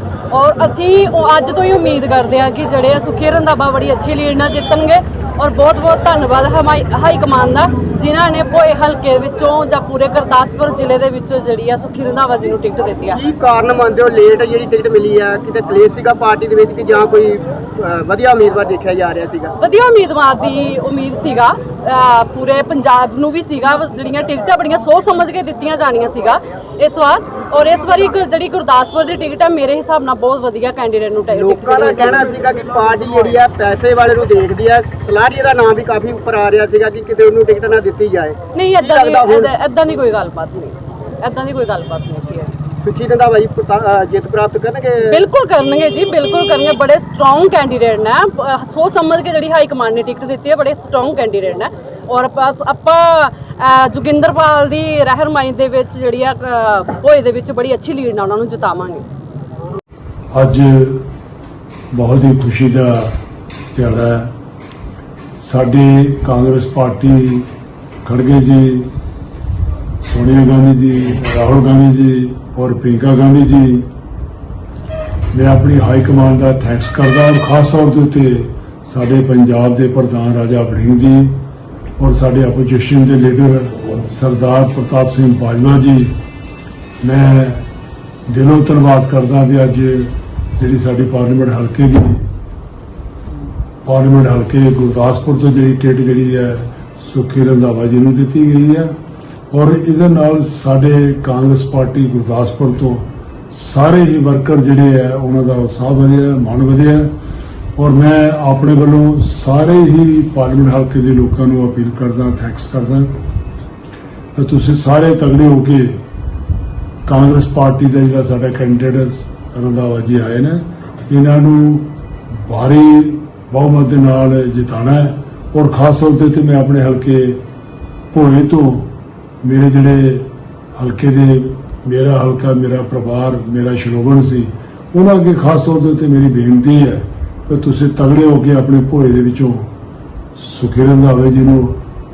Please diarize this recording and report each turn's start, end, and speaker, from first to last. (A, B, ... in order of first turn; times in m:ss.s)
0:00.3-0:13.2 A
0:13.1-0:19.6 B
0:19.6-0:32.2 A
0:31.3-0:39.5 B
0:38.5-0:42.5 A
0:42.8-0:45.2 B
0:45.1-0:59.0 A
1:00.3-1:01.1 C
1:01.9-1:03.2 C
1:03.7-1:04.3 C
1:05.4-1:07.5 C
1:08.0-1:09.0 C
1:10.0-1:13.9 C
1:15.3-1:21.4 C
1:22.0-1:26.1 C
1:27.0-1:27.7 C
1:28.3-1:32.2 C
1:33.8-1:38.9 C
1:39.5-1:47.1 C
1:47.8-1:53.2 C
1:54.3-1:56.0 C
1:57.1-2:07.4 C
2:08.1-2:08.9 C
2:09.4-2:19.7 C
2:20.4-2:21.8 C